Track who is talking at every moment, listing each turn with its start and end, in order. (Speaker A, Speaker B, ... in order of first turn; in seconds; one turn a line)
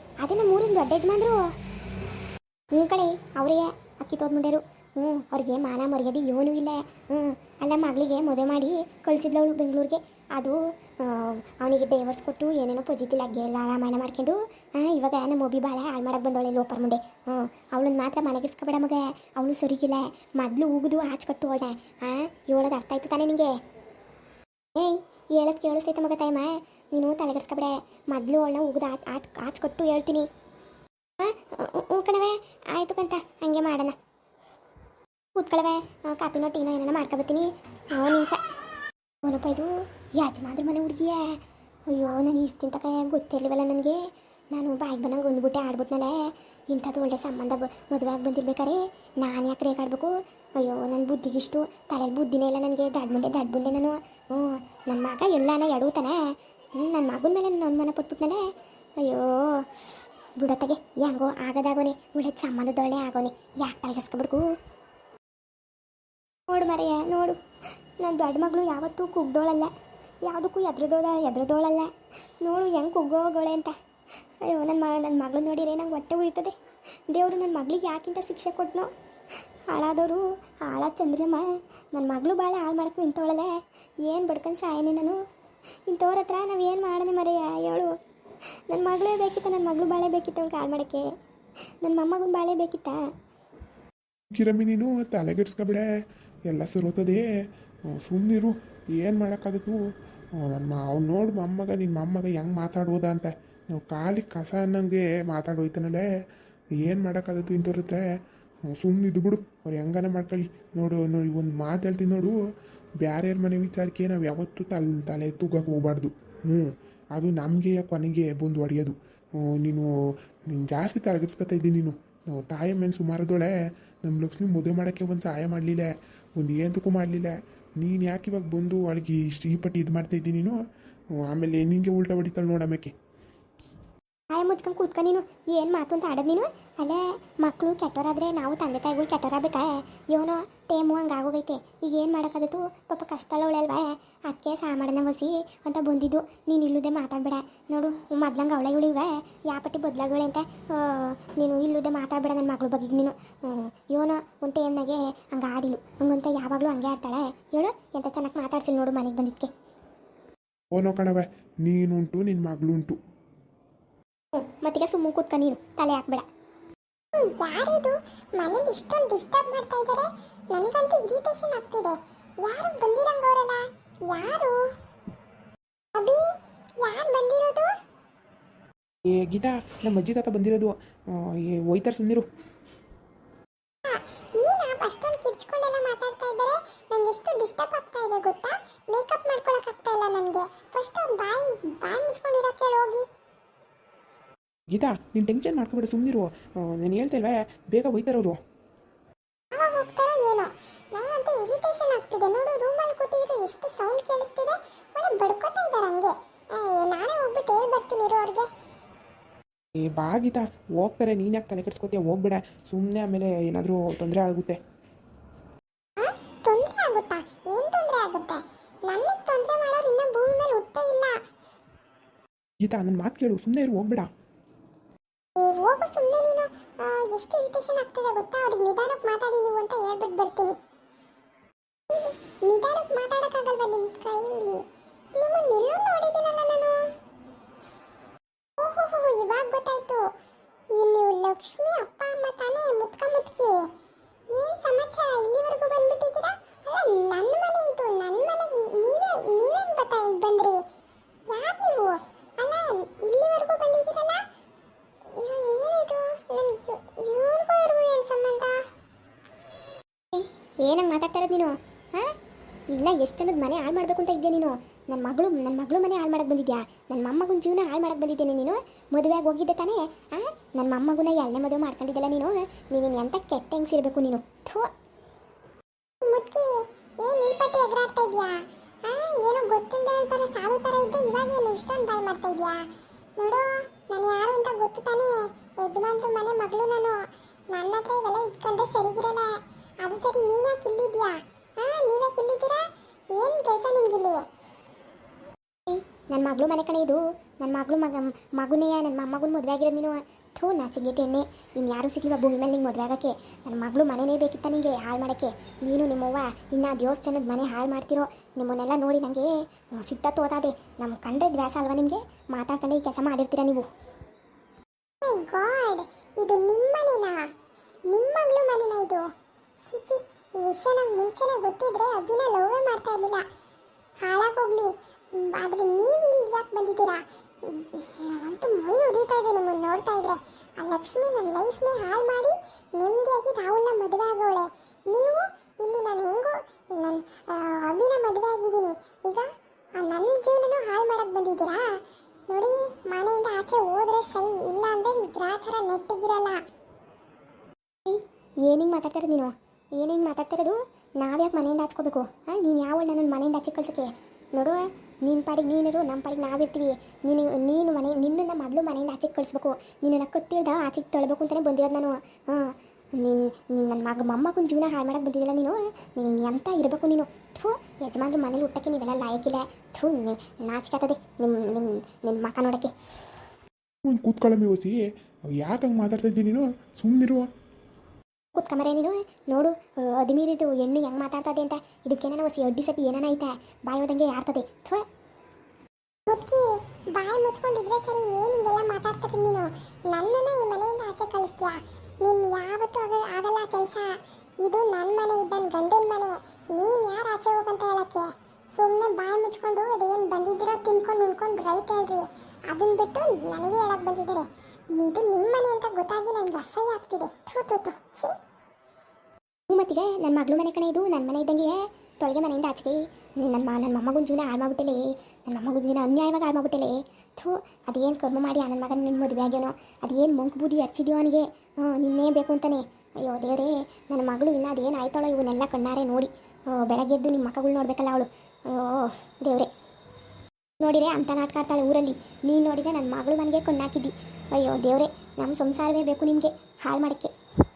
Speaker A: 0.2-1.5
Speaker A: 2.7-23.5
Speaker A: 24.7-30.3
Speaker A: 31.2-34.0
Speaker A: 35.4-38.4
Speaker A: 39.2-41.4
Speaker A: 41.9-44.0
Speaker A: 44.5-46.2
Speaker A: 46.7-58.4
Speaker A: 59.0-59.7
Speaker A: 60.4-64.5
Speaker A: 66.5-67.4
Speaker A: 68.0-69.7
Speaker A: 70.2-73.8
Speaker A: 74.4-76.5
Speaker A: 77.1-78.9
Speaker A: 79.7-85.2
Speaker A: 85.9-87.9
Speaker A: 88.7-91.1
Speaker A: 91.8-93.0
Speaker B: 94.3-95.8
Speaker B: 96.5-97.2
Speaker B: 97.9-99.8
Speaker B: 100.4-106.0
Speaker B: 106.8-108.0
Speaker B: 108.7-112.4
Speaker B: 113.0-119.9
Speaker B: 120.5-123.5
Speaker B: 124.0-130.6
Speaker B: 131.3-132.9
Speaker A: 134.3-159.5
Speaker B: 160.7-163.0
Speaker A: 164.3-166.2
Speaker C: 167.1-174.6
Speaker C: 175.9-176.2
Speaker C: 176.8-177.7
Speaker D: 179.1-182.3
Speaker C: 183.8-193.0
Speaker D: 194.7-198.4
Speaker C: 199.5-208.5
Speaker D: 209.8-214.6
Speaker C: 216.0-221.2
Speaker D: 222.7-224.1
Speaker C: 225.4-230.6
Speaker C: 231.9-234.6
Speaker C: 235.2-236.9
Speaker C: 238.6-240.1
Speaker C: 240.7-243.6
Speaker C: 244.3-250.6
Speaker C: 251.3-254.2
Speaker C: 255.2-258.6
Speaker A: 260.1-262.1
Speaker A: 262.7-274.7
Speaker C: 276.0-276.5
Speaker C: 277.0-282.6
Speaker C: 283.2-294.2
Speaker A: 295.7-313.6
Speaker C: 315.0-317.3
Speaker C: 317.9-319.1
Speaker C: 319.6-323.3
Speaker C: 324.0-346.5
Speaker A: 347.9-372.7
Speaker B: 373.8-374.8
Speaker B: 375.4-377.3
Speaker A: 378.3-384.8
Speaker C: 386.1-408.1
Speaker A: 409.5-429.5
Speaker A: 430.6-437.1